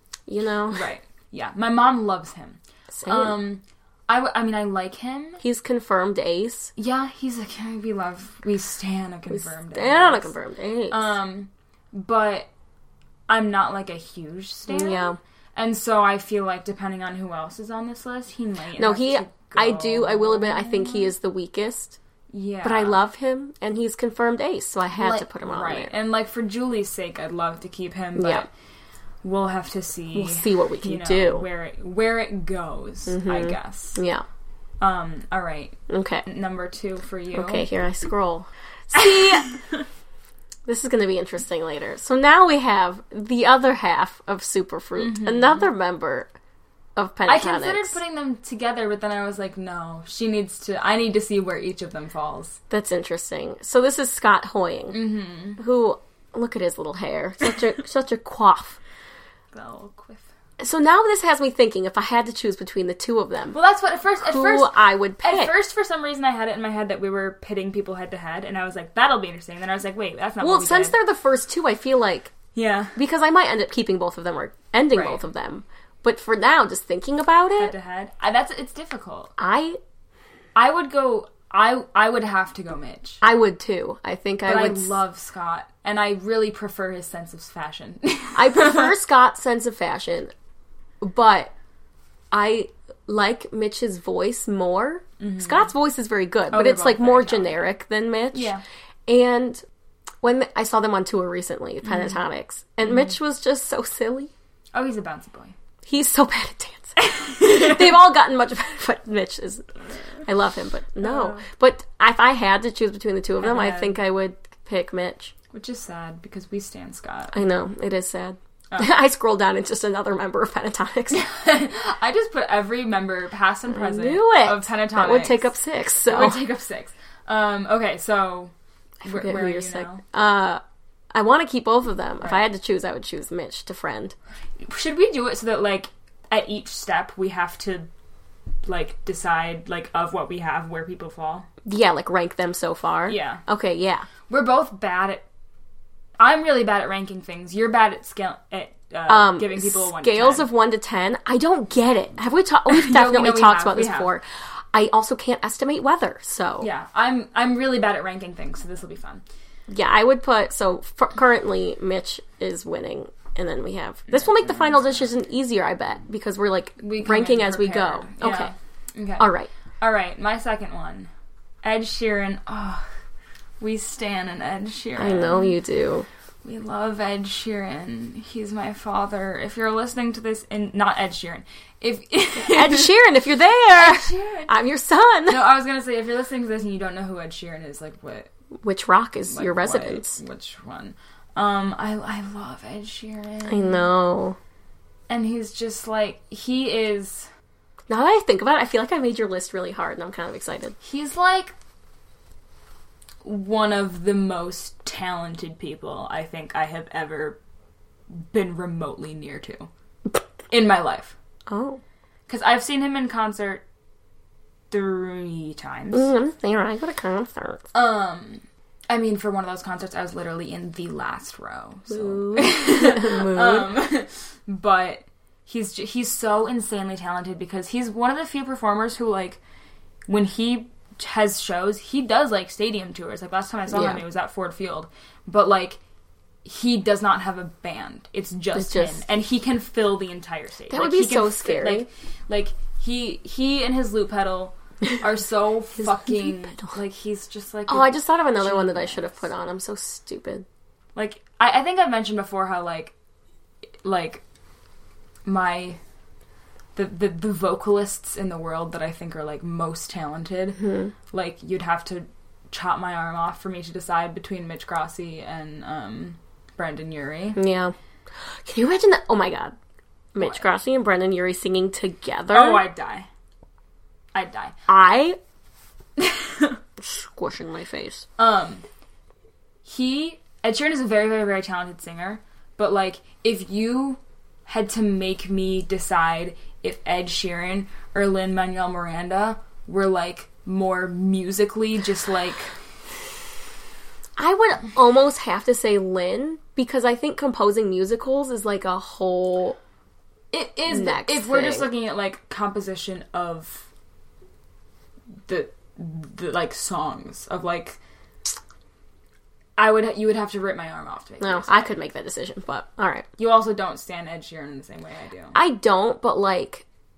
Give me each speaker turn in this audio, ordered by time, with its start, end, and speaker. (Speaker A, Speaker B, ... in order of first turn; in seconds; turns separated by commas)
Speaker A: 0.3-0.8, Speaker B: 0.7-5.4, Speaker A: 2.9-3.4, Speaker A: 5.4-6.7, Speaker B: 6.8-10.3, Speaker A: 9.3-11.1, Speaker B: 10.9-12.5, Speaker B: 13.3-21.1, Speaker A: 14.7-15.2, Speaker A: 18.8-22.0, Speaker B: 22.3-23.0, Speaker A: 22.6-25.9, Speaker B: 24.9-28.5, Speaker A: 28.2-28.5, Speaker B: 29.2-34.0, Speaker A: 30.1-31.4, Speaker A: 33.1-34.2, Speaker B: 34.8-37.7, Speaker A: 35.9-36.2, Speaker A: 37.3-39.5, Speaker B: 38.9-39.8, Speaker A: 40.6-46.3, Speaker B: 45.0-45.7, Speaker A: 47.0-48.0, Speaker B: 47.2-52.6, Speaker A: 52.7-55.0, Speaker B: 54.9-55.6, Speaker A: 55.6-58.8, Speaker B: 59.5-60.3, Speaker A: 60.6-63.5, Speaker B: 63.5-70.9, Speaker A: 64.2-65.5, Speaker A: 70.4-72.3, Speaker B: 72.5-73.0, Speaker A: 73.0-77.7, Speaker B: 74.9-75.2, Speaker B: 77.6-79.3, Speaker A: 79.4-79.8, Speaker B: 80.5-83.2, Speaker A: 83.2-85.0, Speaker B: 84.5-88.9, Speaker A: 88.3-90.3, Speaker A: 91.0-91.5, Speaker A: 92.3-98.5, Speaker B: 95.2-95.7, Speaker B: 96.5-97.5, Speaker B: 98.3-98.6, Speaker A: 99.1-99.6, Speaker A: 100.2-104.3, Speaker B: 101.8-102.2, Speaker B: 102.8-103.1, Speaker B: 104.7-105.5, Speaker A: 105.8-109.7, Speaker B: 107.0-107.9, Speaker A: 110.2-115.3, Speaker B: 111.0-111.4, Speaker B: 113.4-114.0, Speaker B: 115.5-117.4, Speaker A: 117.3-121.2, Speaker B: 121.1-125.5, Speaker A: 123.7-126.4, Speaker B: 126.1-128.5, Speaker A: 129.0-130.6, Speaker B: 129.0-130.0, Speaker A: 131.1-134.1, Speaker B: 134.6-137.9, Speaker B: 138.6-141.5, Speaker A: 141.6-144.1, Speaker B: 143.1-143.4, Speaker B: 144.3-145.2, Speaker B: 146.2-150.5, Speaker A: 149.1-156.7, Speaker B: 152.7-154.1, Speaker B: 156.6-159.2, Speaker A: 159.7-168.5, Speaker B: 164.1-165.0, Speaker B: 166.8-169.3, Speaker A: 169.2-169.5, Speaker B: 169.8-171.1, Speaker B: 171.6-172.8, Speaker B: 173.6-175.6, Speaker A: 175.0-176.1, Speaker B: 176.4-182.9, Speaker A: 182.3-185.5, Speaker B: 183.8-184.6, Speaker B: 185.3-188.3, Speaker A: 188.6-190.2, Speaker B: 189.3-193.9, Speaker A: 193.5-194.4, Speaker B: 195.1-197.3, Speaker A: 197.9-200.7, Speaker B: 200.8-201.5, Speaker B: 203.2-207.4, Speaker B: 208.2-209.7, Speaker B: 210.5-211.2, Speaker A: 211.5-211.8, Speaker B: 212.3-213.6, Speaker B: 214.7-216.1, Speaker A: 215.9-217.7, Speaker B: 217.7-229.4, Speaker A: 221.9-223.7, Speaker B: 230.1-235.8, Speaker A: 233.7-234.0, Speaker B: 236.4-249.2, Speaker A: 238.5-239.0, Speaker A: 240.7-241.9, Speaker A: 245.8-246.7, Speaker A: 247.7-250.4, Speaker B: 250.9-252.9, Speaker B: 253.8-254.2, Speaker B: 255.2-255.8, Speaker B: 256.8-267.4, Speaker A: 260.6-260.9, Speaker A: 267.4-267.7, Speaker A: 268.2-269.6, Speaker A: 270.1-272.6, Speaker B: 272.3-273.1, Speaker B: 274.1-274.6, Speaker A: 274.7-275.2, Speaker B: 276.0-276.6, Speaker A: 276.8-278.1, Speaker B: 278.2-278.6, Speaker B: 279.6-292.5, Speaker A: 294.2-299.6, Speaker B: 300.3-303.7, Speaker A: 300.7-301.7, Speaker B: 305.3-307.8, Speaker B: 309.6-311.7, Speaker A: 311.2-313.1, Speaker B: 313.2-315.4, Speaker A: 315.3-316.6